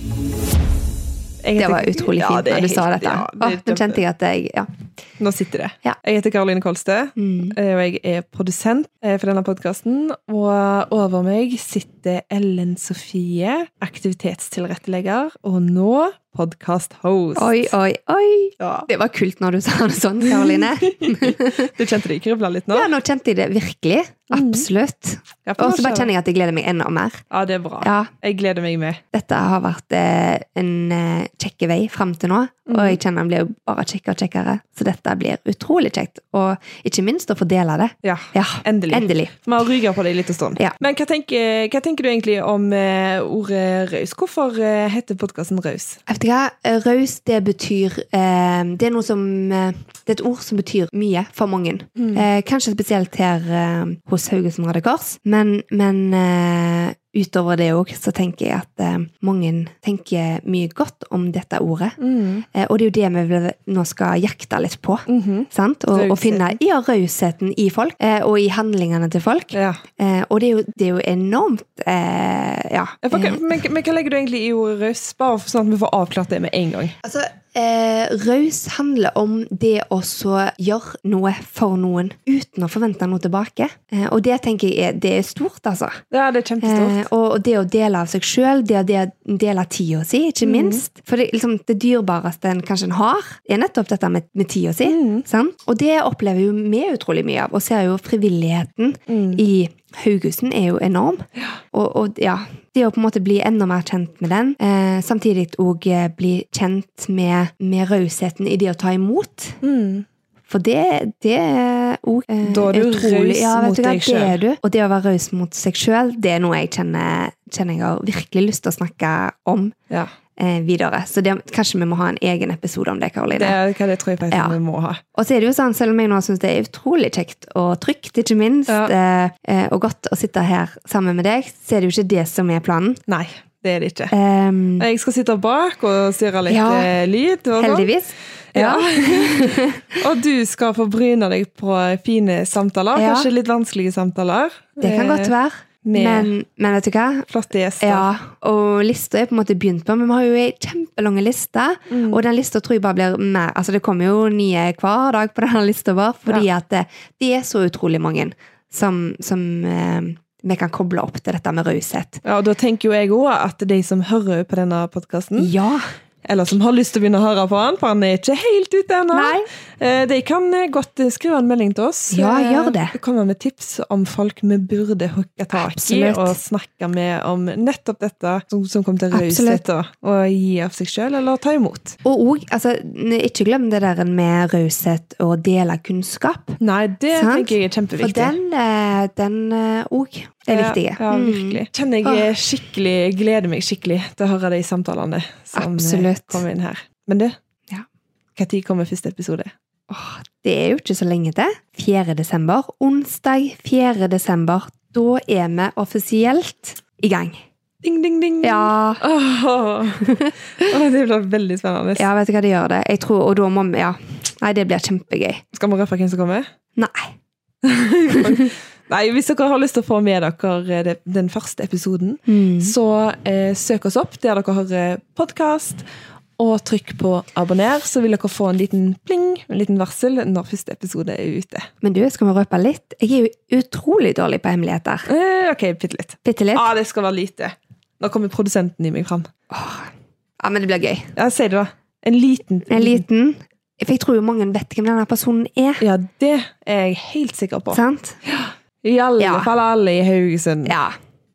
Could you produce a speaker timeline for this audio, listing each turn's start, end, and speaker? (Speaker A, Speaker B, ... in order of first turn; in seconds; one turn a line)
Speaker A: 1.4-4.0
Speaker B: 1.6-4.7
Speaker A: 5.2-17.7
Speaker B: 7.2-7.6
Speaker B: 17.4-21.7
Speaker A: 18.6-18.9
Speaker A: 20.3-22.9
Speaker B: 22.7-27.2
Speaker A: 24.3-24.7
Speaker A: 25.4-26.1
Speaker A: 27.3-29.0
Speaker B: 27.8-28.1
Speaker B: 29.1-39.4
Speaker A: 32.7-33.0
Speaker A: 38.0-46.0
Speaker B: 46.1-62.0
Speaker A: 52.0-52.2
Speaker A: 62.0-62.5
Speaker B: 62.5-73.4
Speaker A: 65.1-66.6
Speaker A: 69.5-69.8
Speaker A: 73.0-76.9
Speaker B: 77.0-86.0
Speaker A: 86.1-87.1
Speaker B: 86.6-109.6
Speaker A: 90.4-90.8
Speaker A: 94.8-95.3
Speaker A: 99.1-99.4
Speaker A: 109.6-110.1
Speaker B: 110.5-119.7
Speaker A: 112.4-114.4
Speaker B: 120.4-123.6
Speaker A: 123.3-125.0
Speaker B: 124.3-124.6
Speaker B: 125.1-133.0
Speaker A: 133.1-134.2
Speaker B: 134.1-134.9
Speaker A: 134.8-137.9
Speaker B: 136.5-136.9
Speaker B: 137.6-139.9
Speaker A: 138.5-145.3
Speaker B: 142.9-143.3
Speaker B: 144.8-147.3
Speaker A: 145.8-146.3
Speaker A: 147.3-148.1
Speaker B: 147.8-162.2
Speaker A: 151.9-152.2
Speaker A: 162.2-165.5
Speaker B: 165.4-165.9
Speaker A: 166.2-182.0
Speaker B: 169.1-169.5
Speaker B: 172.1-173.0
Speaker B: 175.5-176.4
Speaker B: 179.1-179.6
Speaker B: 182.1-186.6
Speaker A: 186.6-188.4
Speaker B: 187.1-192.3
Speaker A: 190.5-197.4
Speaker B: 195.6-196.4
Speaker A: 198.4-199.5
Speaker B: 199.9-207.4
Speaker A: 207.8-212.1
Speaker B: 208.4-209.0
Speaker B: 210.1-210.3
Speaker B: 212.0-215.4
Speaker A: 215.5-216.5
Speaker B: 216.8-217.1
Speaker A: 217.6-225.8
Speaker B: 222.3-222.8
Speaker A: 226.4-231.7
Speaker B: 231.8-235.1
Speaker A: 235.1-239.3
Speaker B: 236.2-236.7
Speaker B: 239.5-241.1
Speaker A: 241.2-243.0
Speaker B: 242.7-245.8
Speaker A: 245.8-250.8
Speaker B: 247.7-248.2
Speaker B: 249.2-249.5
Speaker B: 250.7-251.0